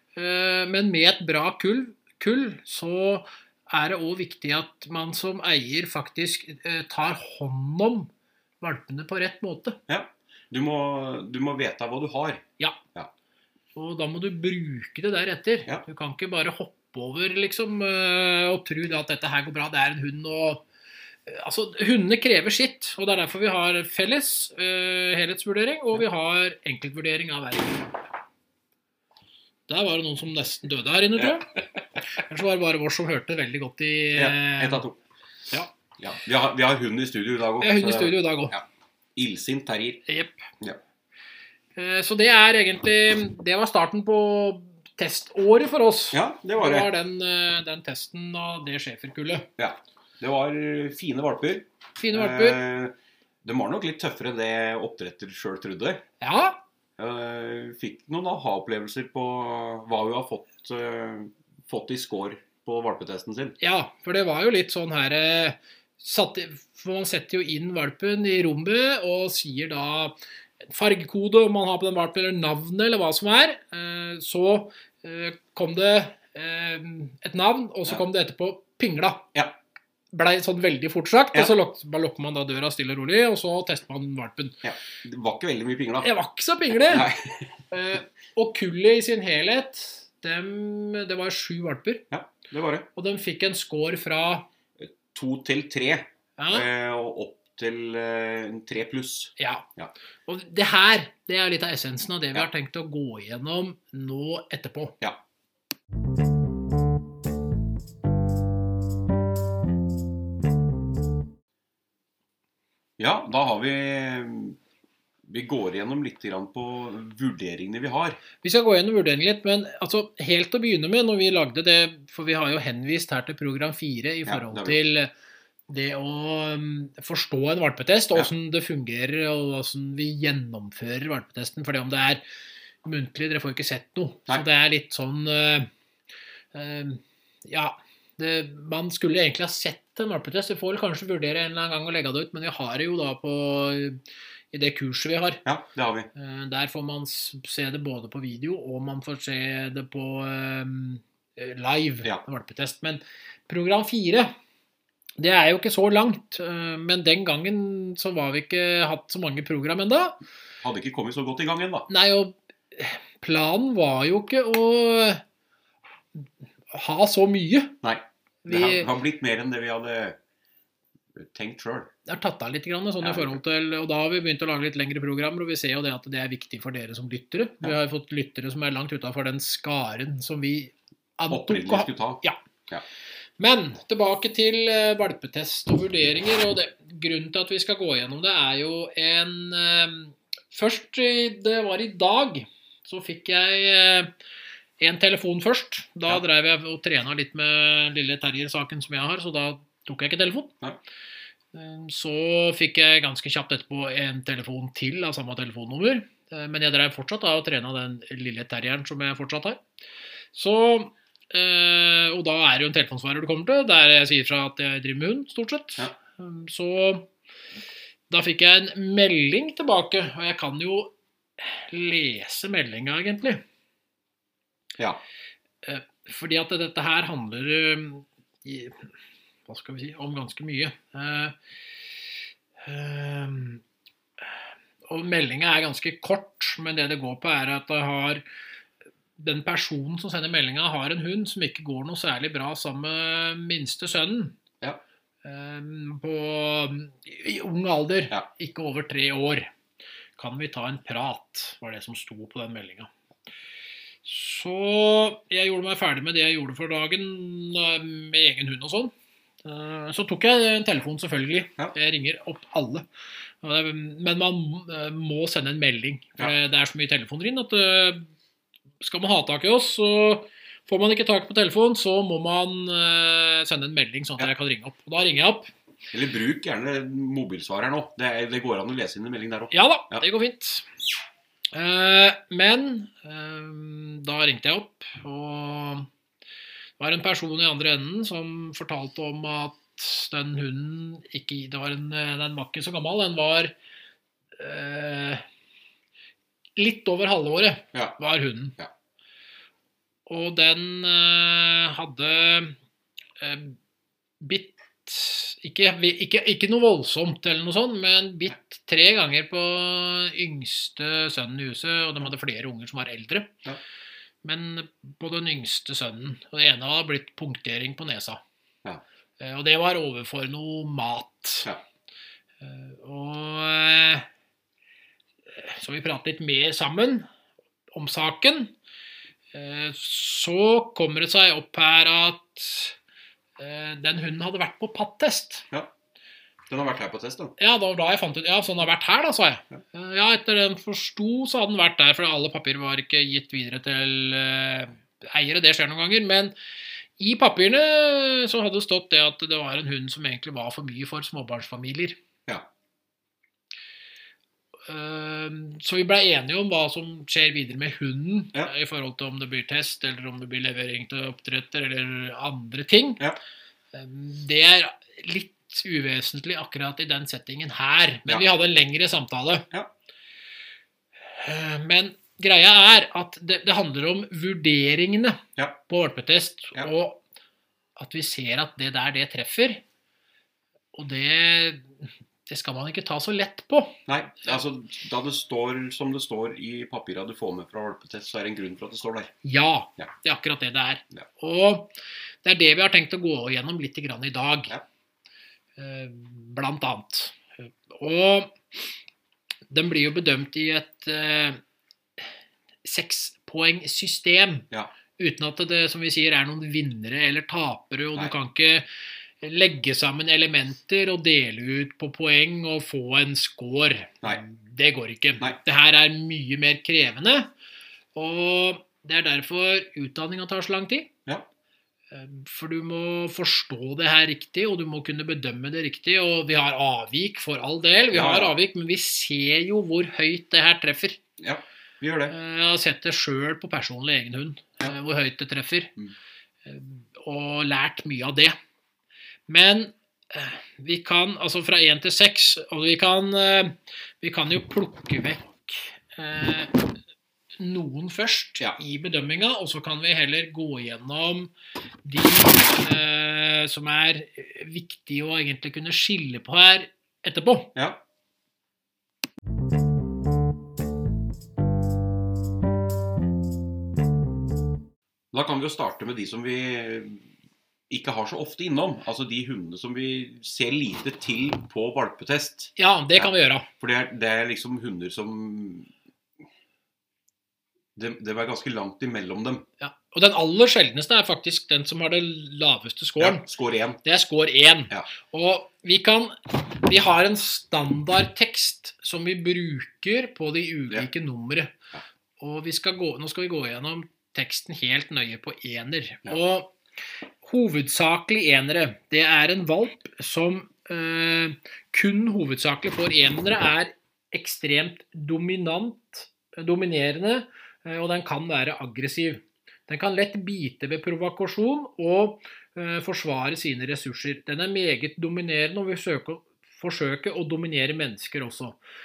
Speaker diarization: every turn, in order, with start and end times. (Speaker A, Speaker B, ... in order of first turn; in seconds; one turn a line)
Speaker A: 0.2-8.1
Speaker A: 8.6-9.8
Speaker B: 9.9-13.1
Speaker A: 13.8-20.6
Speaker A: 21.3-28.0
Speaker A: 29.7-31.6
Speaker A: 32.1-34.8
Speaker B: 34.1-35.0
Speaker B: 35.5-38.6
Speaker A: 37.6-38.5
Speaker B: 39.1-40.0
Speaker A: 40.1-40.4
Speaker A: 41.8-49.5
Speaker B: 46.1-46.9
Speaker B: 49.6-56.0
Speaker A: 52.0-52.6
Speaker A: 56.2-56.6
Speaker B: 57.0-63.6
Speaker A: 63.6-70.2
Speaker A: 70.7-79.3
Speaker A: 80.1-84.6
Speaker B: 84.6-86.1
Speaker A: 86.0-87.1
Speaker B: 86.7-87.6
Speaker A: 87.7-92.0
Speaker B: 92.1-92.9
Speaker A: 93.0-94.5
Speaker B: 94.8-99.9
Speaker A: 96.4-96.7
Speaker A: 99.4-99.7
Speaker A: 100.3-105.0
Speaker B: 113.0-114.6
Speaker B: 115.3-118.2
Speaker A: 118.4-125.1
Speaker B: 124.2-124.8
Speaker A: 125.7-132.2
Speaker A: 132.8-135.7
Speaker A: 136.5-144.0
Speaker A: 144.5-145.4
Speaker B: 145.4-146.1
Speaker A: 146.1-154.3
Speaker A: 155.2-160.2
Speaker B: 160.6-161.9
Speaker A: 161.9-165.2
Speaker A: 166.2-167.8
Speaker B: 167.8-170.2
Speaker A: 168.4-168.9
Speaker B: 171.2-171.9
Speaker A: 172.1-182.4
Speaker B: 173.0-173.4
Speaker B: 181.3-182.8
Speaker A: 183.4-194.1
Speaker A: 194.8-200.6
Speaker A: 201.5-209.6
Speaker A: 210.3-217.1
Speaker A: 218.1-223.4
Speaker A: 225.6-228.8
Speaker A: 229.5-231.3
Speaker A: 232.6-233.6
Speaker A: 234.9-238.2
Speaker A: 239.2-244.4
Speaker A: 245.2-249.5
Speaker A: 250.2-252.9
Speaker A: 254.0-258.9
Speaker A: 259.4-262.9
Speaker A: 263.4-268.1
Speaker A: 268.8-275.5
Speaker B: 275.9-280.0
Speaker A: 279.5-280.7
Speaker A: 281.5-285.9
Speaker A: 286.8-293.5
Speaker A: 294.4-295.2
Speaker A: 296.6-298.6
Speaker A: 300.1-302.6
Speaker A: 303.2-303.6
Speaker A: 304.2-313.4
Speaker A: 314.2-318.2
Speaker A: 319.2-321.5
Speaker A: 322.4-324.1
Speaker A: 325.4-327.1
Speaker A: 327.7-328.5
Speaker A: 329.3-332.8
Speaker A: 333.4-335.5
Speaker B: 336.5-337.4
Speaker A: 337.4-346.3
Speaker A: 347.0-352.0
Speaker A: 354.7-363.0
Speaker A: 363.7-369.4
Speaker A: 371.1-377.0
Speaker A: 377.8-379.6
Speaker A: 380.7-383.8
Speaker B: 383.9-389.1
Speaker A: 389.2-391.7
Speaker A: 392.2-394.6
Speaker A: 395.6-398.7
Speaker A: 399.5-401.4
Speaker A: 402.6-404.5
Speaker A: 405.0-408.7
Speaker A: 409.2-417.3
Speaker A: 417.9-420.9
Speaker A: 421.9-431.0
Speaker B: 427.9-428.4
Speaker B: 431.2-432.1
Speaker A: 432.1-435.7
Speaker A: 436.5-438.4
Speaker A: 439.3-446.5
Speaker A: 447.4-451.3
Speaker A: 451.9-457.5
Speaker B: 465.1-467.1
Speaker B: 467.7-475.7
Speaker A: 472.6-473.5
Speaker B: 477.8-479.5
Speaker A: 479.6-483.2
Speaker B: 483.0-483.8
Speaker A: 483.8-491.6
Speaker A: 492.2-496.6
Speaker A: 497.2-518.6